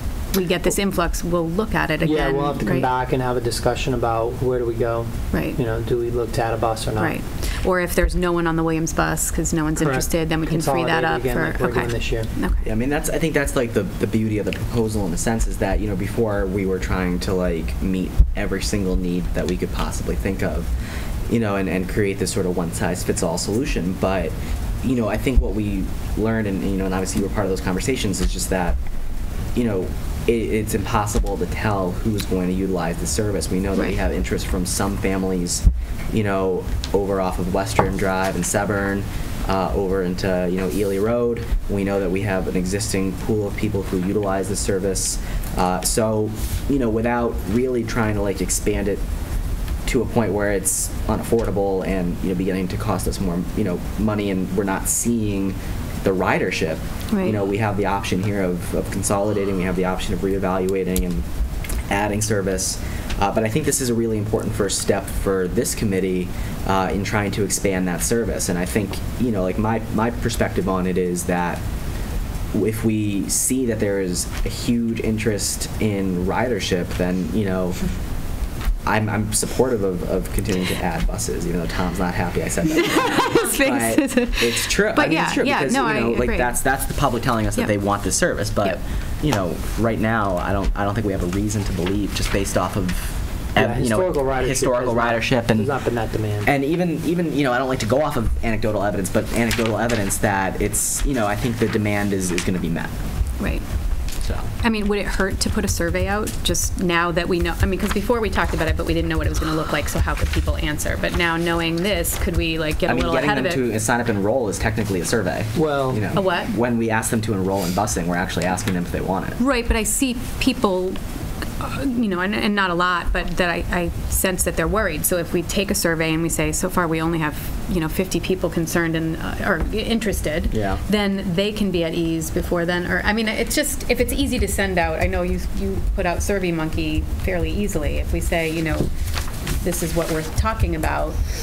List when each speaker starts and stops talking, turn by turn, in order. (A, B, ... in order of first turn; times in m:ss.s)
0:00.3-0:02.9 A
0:02.0-0:07.1 B
0:05.3-0:05.6 A
0:07.0-0:12.6 A
0:09.8-0:12.3 B
0:12.6-0:20.7 C
0:21.3-0:28.8 C
0:29.5-0:49.0 C
0:49.9-1:01.2 C
0:57.1-0:57.4 A
1:01.9-1:11.6 C
1:12.5-1:17.8 C
1:18.9-1:35.7 C
1:22.7-1:26.6 A
1:33.6-1:36.5 B
1:36.4-1:42.9 C
1:43.4-1:43.6 A
1:44.2-1:44.5 C
1:44.6-1:53.6 A
1:52.9-1:59.4 C
1:55.6-1:56.1 B
1:56.1-1:56.5 A
1:59.4-2:01.0 A
2:01.6-2:18.9 A
2:10.5-2:10.8 C
2:19.6-2:21.2 A